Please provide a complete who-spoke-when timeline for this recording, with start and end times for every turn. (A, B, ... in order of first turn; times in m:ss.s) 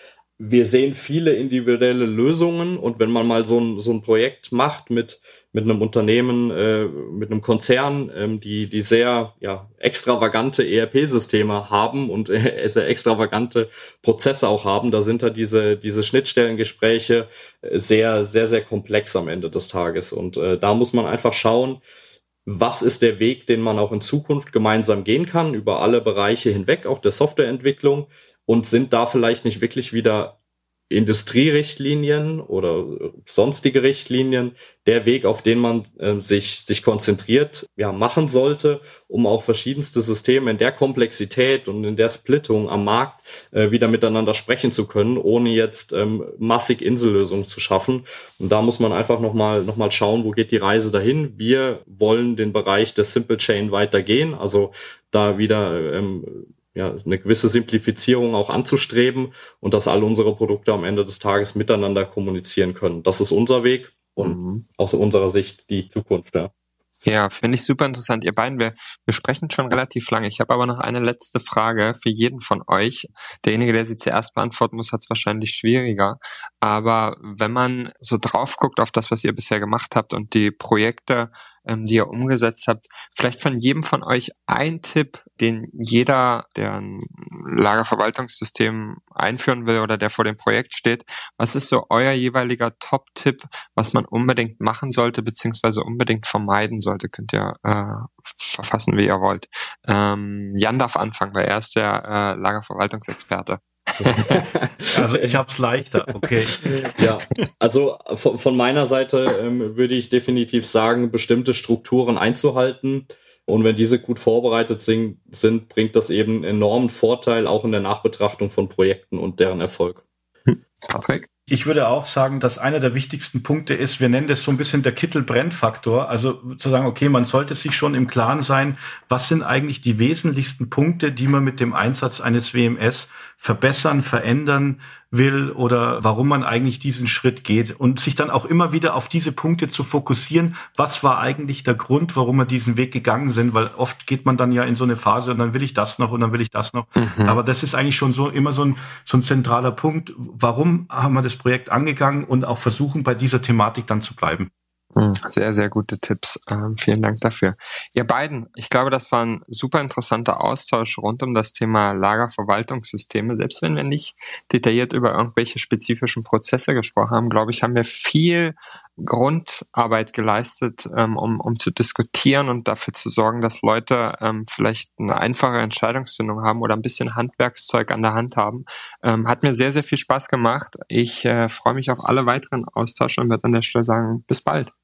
0:00.4-0:21.8 A
0:22.4-0:30.4 A
0:30.9-1:06.5 A
1:04.2-1:04.6 B
1:07.0-1:44.4 B
1:44.1-1:45.4 A
1:44.9-1:46.6 C
1:46.6-1:47.0 B
1:47.0-2:00.0 A
2:00.5-2:01.3 B
2:01.5-2:34.5 C
2:27.0-2:27.4 B
2:35.0-3:04.7 B